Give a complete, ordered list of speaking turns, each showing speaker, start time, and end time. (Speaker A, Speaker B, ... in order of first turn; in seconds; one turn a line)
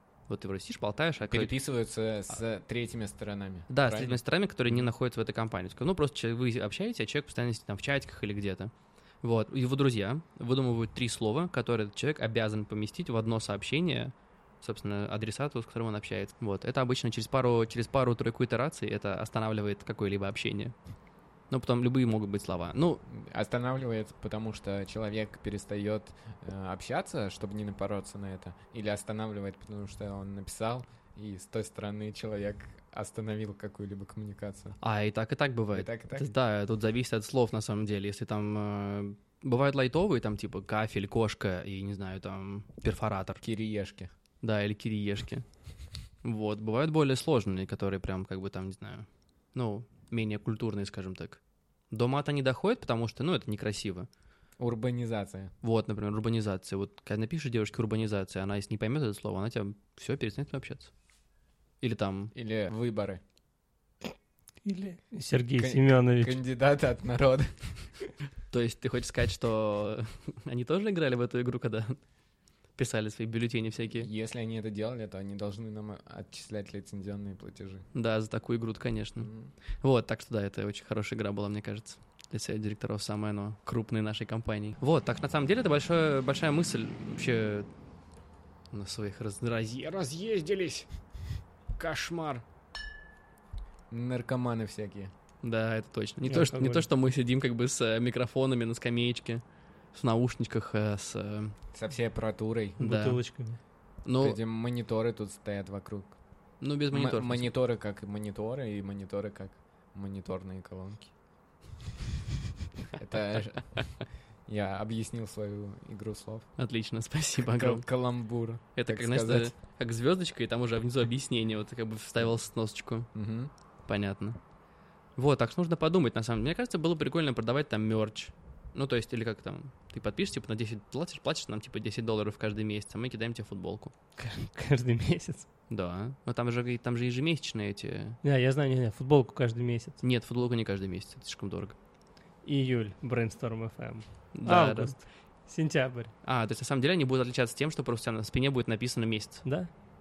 Speaker A: 0.3-1.5
Speaker B: 1.3-4.2
Speaker A: 3.7-20.8
Speaker A: 21.5-23.0
Speaker B: 23.1-34.8
Speaker A: 34.8-43.4
Speaker B: 35.7-36.3
Speaker B: 43.4-44.1
Speaker A: 44.4-45.5
Speaker A: 46.2-51.4
Speaker A: 51.9-54.1
Speaker B: 54.6-55.5
Speaker A: 55.6-60.9
Speaker A: 61.8-62.3
Speaker B: 62.4-63.2
Speaker C: 64.7-66.4
Speaker B: 65.6-67.5
Speaker A: 68.5-72.0
Speaker A: 72.8-74.1
Speaker B: 73.9-77.8
Speaker A: 77.9-79.3
Speaker B: 79.2-79.5
Speaker A: 79.8-87.7
Speaker A: 88.7-90.9
Speaker A: 91.8-92.4
Speaker B: 93.9-95.1
Speaker A: 95.4-99.4
Speaker C: 96.3-96.9
Speaker A: 99.9-101.6
Speaker B: 101.7-102.8
Speaker C: 102.8-103.6
Speaker A: 102.8-103.2
Speaker A: 104.0-104.4
Speaker B: 104.2-106.2
Speaker A: 106.6-107.5
Speaker B: 106.9-111.1
Speaker B: 112.9-113.9
Speaker B: 114.5-116.5
Speaker A: 116.6-117.9
Speaker B: 117.5-119.5
Speaker A: 118.8-123.1
Speaker B: 123.1-123.5
Speaker A: 123.9-124.4
Speaker A: 125.2-133.9
Speaker C: 134.2-135.5
Speaker A: 135.7-138.2
Speaker C: 138.2-140.0
Speaker A: 140.0-141.8
Speaker C: 142.4-146.1
Speaker A: 144.3-145.0
Speaker A: 146.2-149.4
Speaker C: 149.4-149.7